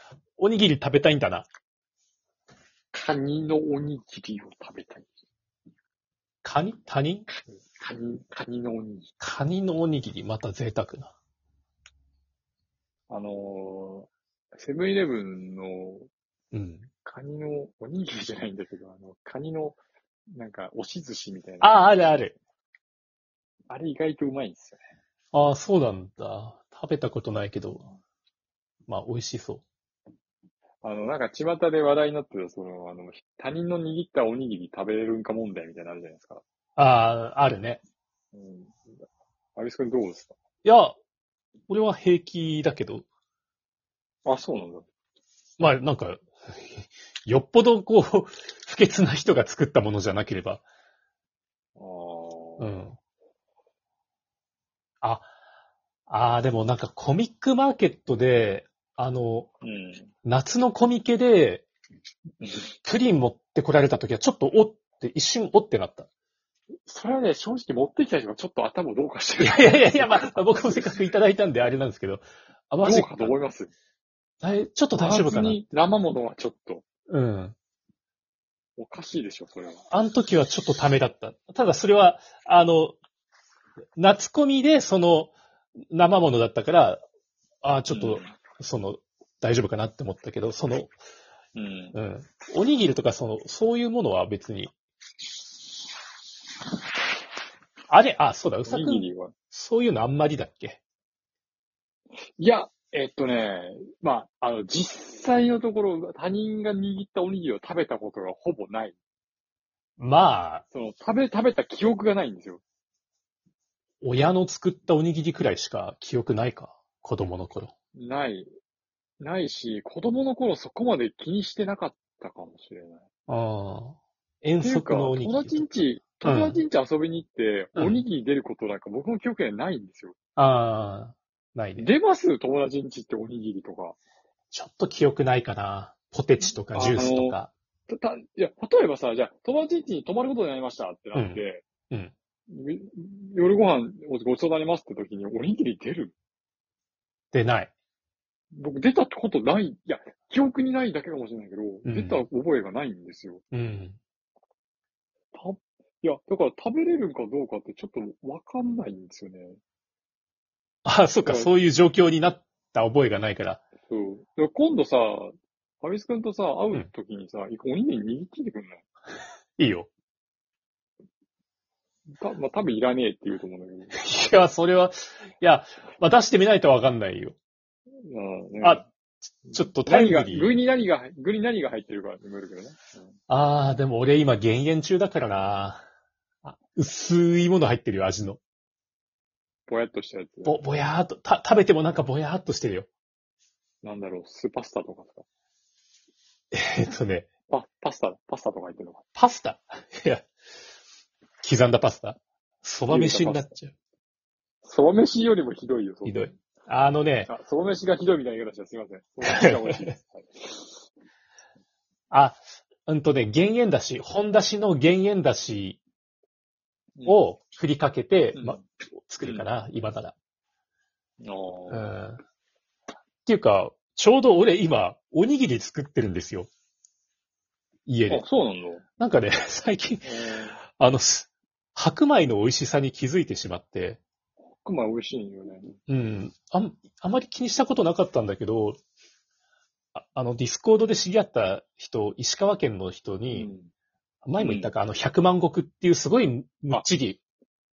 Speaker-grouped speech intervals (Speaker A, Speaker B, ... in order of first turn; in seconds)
Speaker A: 0.4-1.5, 6.4-7.3, 9.2-11.1, 16.5-16.9, 21.6-22.3, 25.3-27.8, 28.9-29.6, 36.8-37.8, 40.6-40.9, 41.7-43.0, 45.6-50.6, 52.6-53.0, 55.0-55.3, 56.1-59.5, 60.2-61.6, 62.8-66.1, 69.4-73.3, 74.4-75.6, 77.1-77.5, 79.9-83.0, 84.0-85.3, 85.9-87.0, 87.6-90.9, 91.9-94.7, 97.9-100.8, 110.0-110.6, 114.0-117.7, 123.3-125.7, 126.2-126.6, 127.8-128.0, 130.4-131.9, 134.5-137.5, 141.1-142.1, 147.3-147.7, 151.8-152.2, 153.5-154.0, 160.8-163.6, 169.6-169.9, 173.9-177.3, 179.5-180.6, 183.3-185.8, 186.4-188.4, 190.4-192.9, 196.5-197.3, 199.2-200.3, 201.4-203.7, 206.0-207.3, 209.3-209.9, 212.1-215.8, 217.1-220.1, 221.7-222.2, 223.2-226.5, 227.9-228.2, 229.0-234.0, 235.9-238.8, 239.9-243.5, 244.2-247.2
Speaker B: 2.9-5.1, 7.5-9.1, 13.1-16.1, 17.0-19.8, 20.3-21.9, 23.7-24.8, 30.8-36.4, 38.3-40.3, 44.2-44.9, 51.8-52.8, 59.6-60.1, 62.4-62.7, 66.8-71.1, 72.8-73.7, 75.0-76.8, 78.8-79.8, 87.9-88.3, 91.5-92.0, 98.7-99.3, 102.3-109.0, 110.7-112.6, 117.9-118.5, 119.2-123.0, 124.6-130.1, 131.8-133.9, 136.4-141.6, 142.5-146.1, 148.5-153.4, 155.3-159.6, 161.2-161.5, 163.8-168.8, 172.2-174.1, 178.0-178.8, 179.4-183.1, 189.7-190.6, 193.8-195.2, 197.5-199.0, 202.9-203.5, 204.6-206.3, 207.3-210.8, 218.3-218.6, 221.2-221.9, 228.1-228.8, 230.0-230.6, 234.6-235.8, 243.3-243.7, 244.4-244.7